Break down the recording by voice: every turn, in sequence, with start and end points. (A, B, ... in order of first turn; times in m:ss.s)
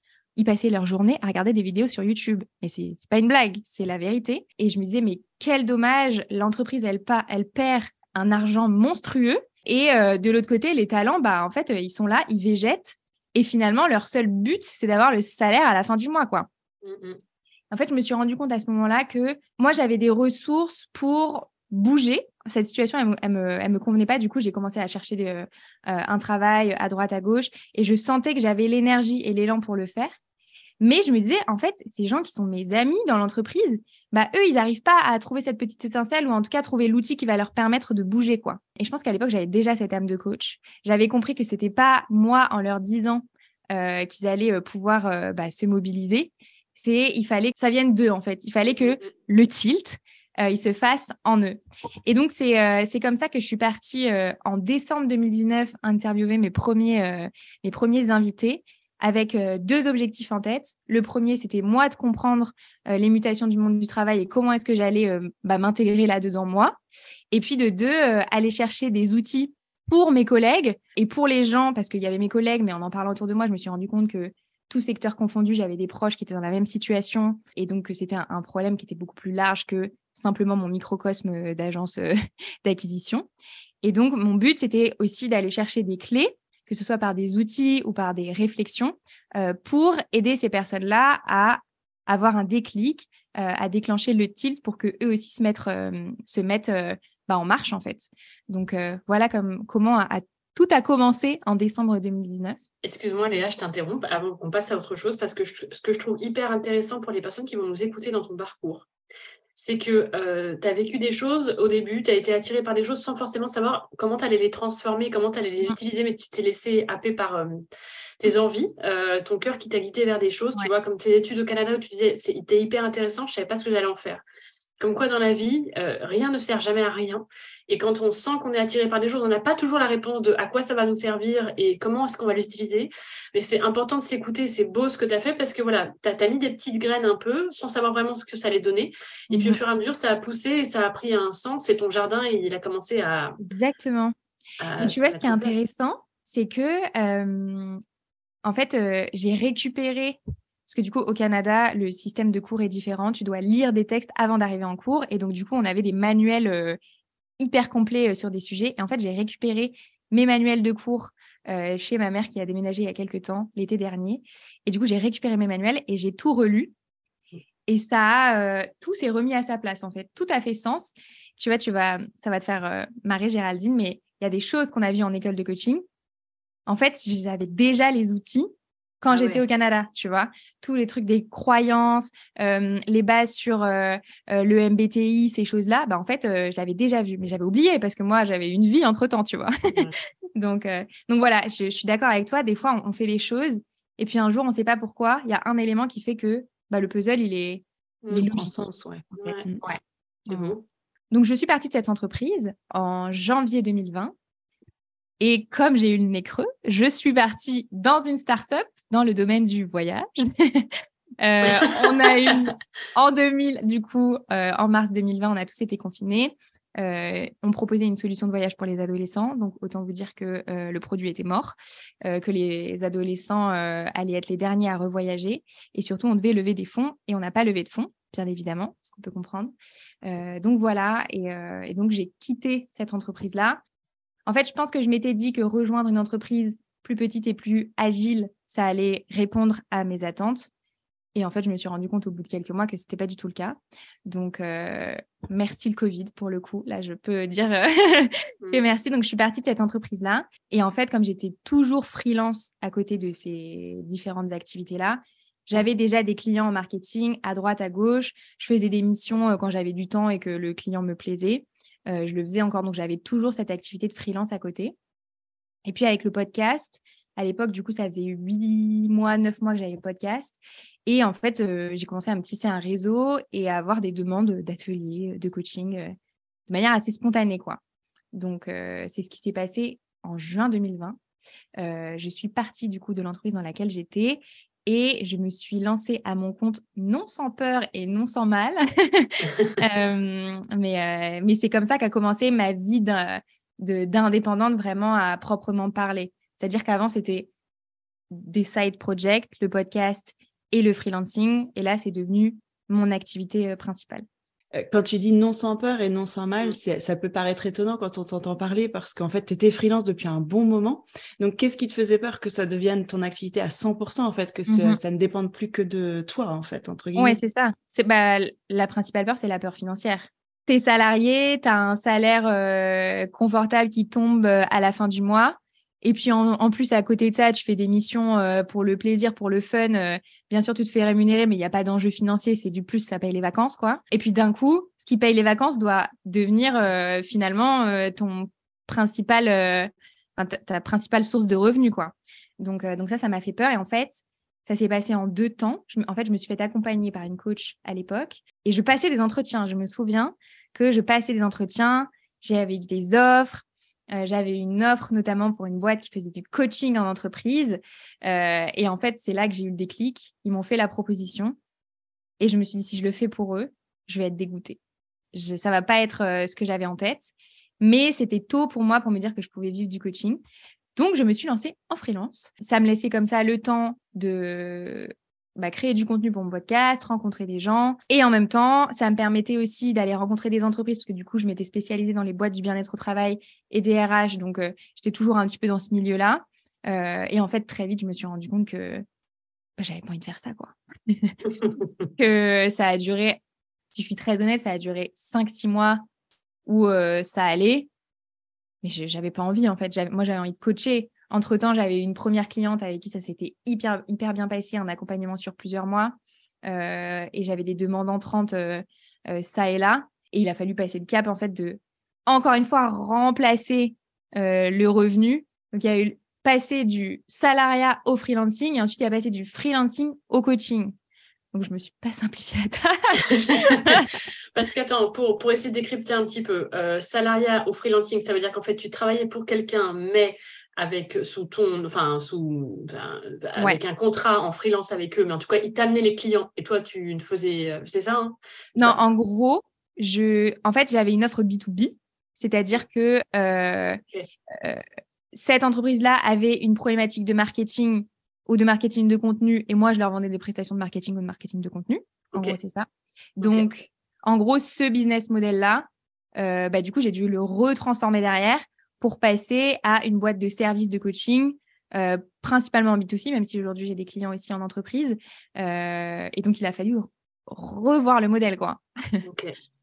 0:00.4-0:16.5 A
0:16.8-0:17.2 B
0:17.7-0:30.2 A
0:30.8-1:06.8 A
0:48.8-0:49.1 B
1:07.3-1:23.3 A
1:23.8-1:42.6 A
1:42.8-1:48.9 B
1:49.6-1:57.6 B
1:58.2-2:04.2 B
2:04.8-2:23.4 B
2:19.3-2:19.6 A
2:23.4-2:24.1 A
2:24.6-2:25.6 B
2:24.8-2:27.8 A
2:28.4-2:36.8 A
2:37.4-2:46.7 A
2:47.7-2:55.8 A
2:56.7-2:58.5 A
2:59.0-3:09.7 A
2:59.1-2:59.4 B
3:10.4-3:18.6 A
3:18.0-3:18.3 B
3:18.3-3:19.6 C
3:19.2-3:19.5 B
3:19.6-3:20.6 A
3:20.3-3:20.6 B
3:21.1-3:24.1 A
3:25.2-3:30.7 A
3:31.2-3:49.5 A
3:31.4-3:32.5 B
3:50.0-3:53.6 A
3:54.3-4:00.5 A
4:01.1-4:24.7 A
4:25.6-4:35.9 A
4:36.5-4:37.6 A
4:38.1-4:41.0 A
4:41.6-4:57.3 A
4:58.1-5:04.0 A
5:04.6-5:17.2 C
5:14.5-5:14.8 A
5:17.0-6:01.4 A
6:02.2-6:04.6 A
6:05.1-6:10.2 A
6:10.7-6:28.8 A
6:29.6-6:31.2 A
6:32.0-6:33.2 A
6:33.7-6:35.8 A
6:36.4-6:37.7 A
6:38.6-7:00.7 A
7:01.3-7:03.9 A
7:03.1-7:18.8 B
7:18.6-7:23.8 A
7:24.3-7:32.7 A
7:33.2-7:49.0 A
7:33.2-7:33.5 B
7:49.0-7:49.3 B